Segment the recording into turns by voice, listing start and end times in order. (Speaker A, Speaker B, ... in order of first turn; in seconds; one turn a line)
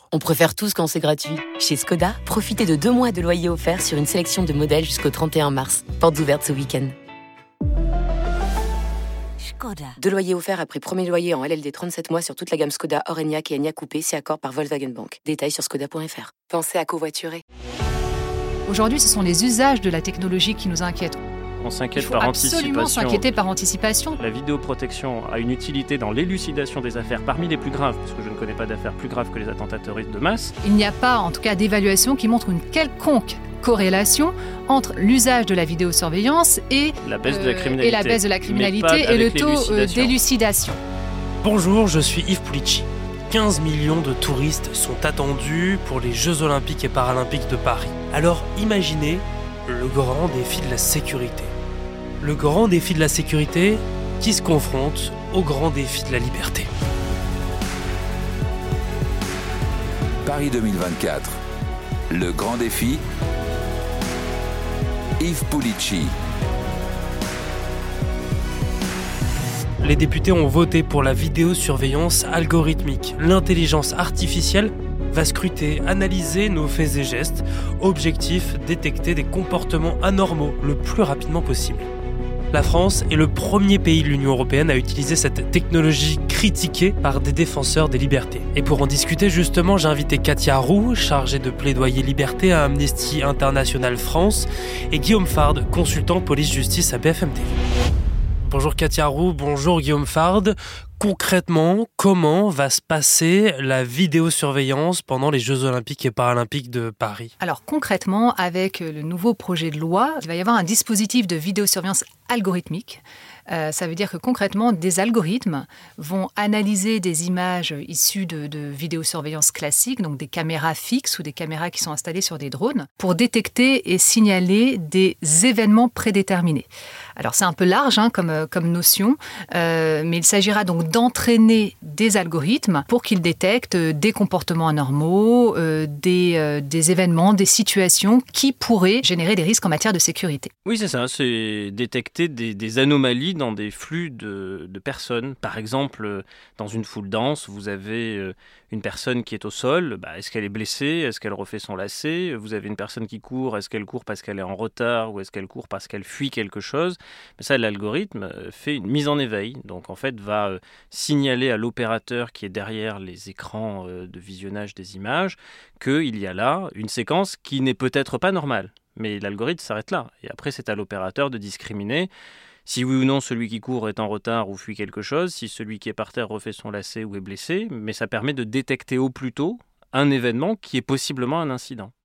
Speaker A: 0.1-6.9
Speaker A: 9.9-17.4
Speaker B: 18.7-21.2
Speaker C: 21.6-23.3
Speaker B: 22.0-24.2
Speaker C: 24.1-30.5
Speaker B: 30.6-40.8
Speaker C: 37.0-40.1
Speaker D: 41.4-51.5
Speaker D: 52.2-56.7
Speaker E: 60.2-61.4
Speaker E: 62.1-63.0
Speaker E: 65.2-66.1
Speaker D: 69.8-81.9
Speaker D: 82.5-97.5
Speaker D: 98.4-107.3
Speaker B: 107.4-140.5
Speaker C: 140.7-172.1
Speaker C: 172.7-181.9